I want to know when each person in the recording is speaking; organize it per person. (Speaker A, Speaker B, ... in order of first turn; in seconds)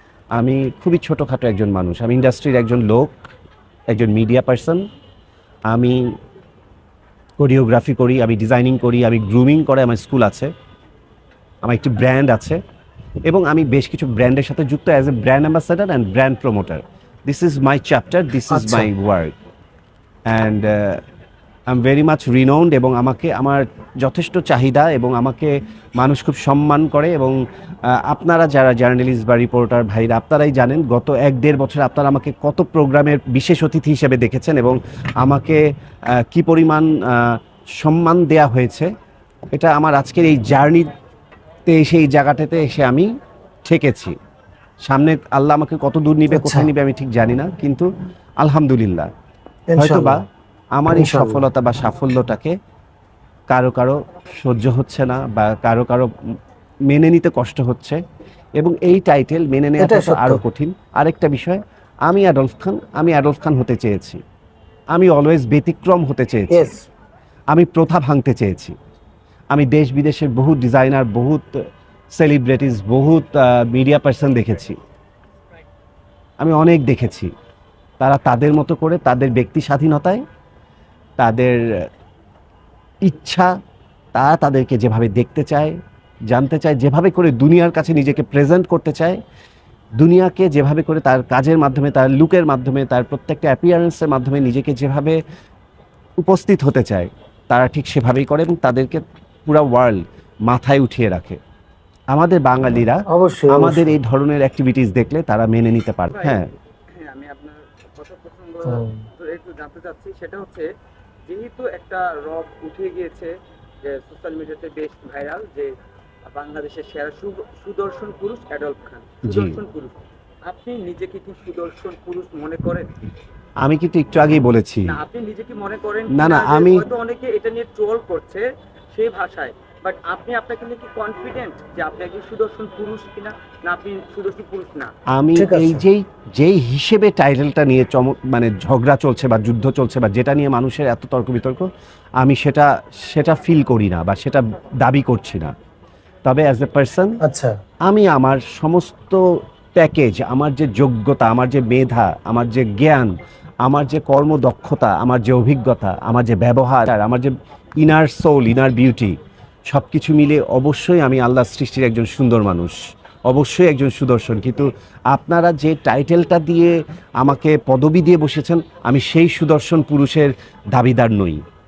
Speaker A: 0.3-3.2, 3.9-4.8, 5.7-6.1, 7.4-10.5, 11.6-12.6, 13.2-19.4, 20.3-21.0, 21.7-27.4, 27.9-35.6, 36.2-38.9, 39.5-40.9, 41.7-43.1, 43.6-44.1, 44.9-47.9, 48.4-49.1, 49.8-50.2, 50.8-52.5, 53.5-56.1, 56.9-58.0, 58.6-64.2, 64.9-66.7, 67.5-68.7, 69.5-71.5, 72.2-74.8, 76.4-77.3, 78.0-80.2, 81.2-81.9, 83.0-83.5, 84.2-85.8, 86.3-89.2, 90.0-95.2, 96.2-101.4, 102.1-106.5, 119.3-119.6, 123.6-125.0, 126.1-126.8, 135.1-141.7, 142.2-145.5, 146.2-147.2, 147.9-149.2, 149.8-159.1, 159.7-171.4
Speaker B: 18.5-18.9, 46.3-46.7, 49.7-50.2, 50.9-51.4, 59.8-60.4, 66.5-66.8, 103.1-104.0, 108.7-109.0, 135.4-135.8, 147.2-147.6
Speaker C: 106.1-110.7, 111.3-115.7, 116.3-122.9, 124.9-134.9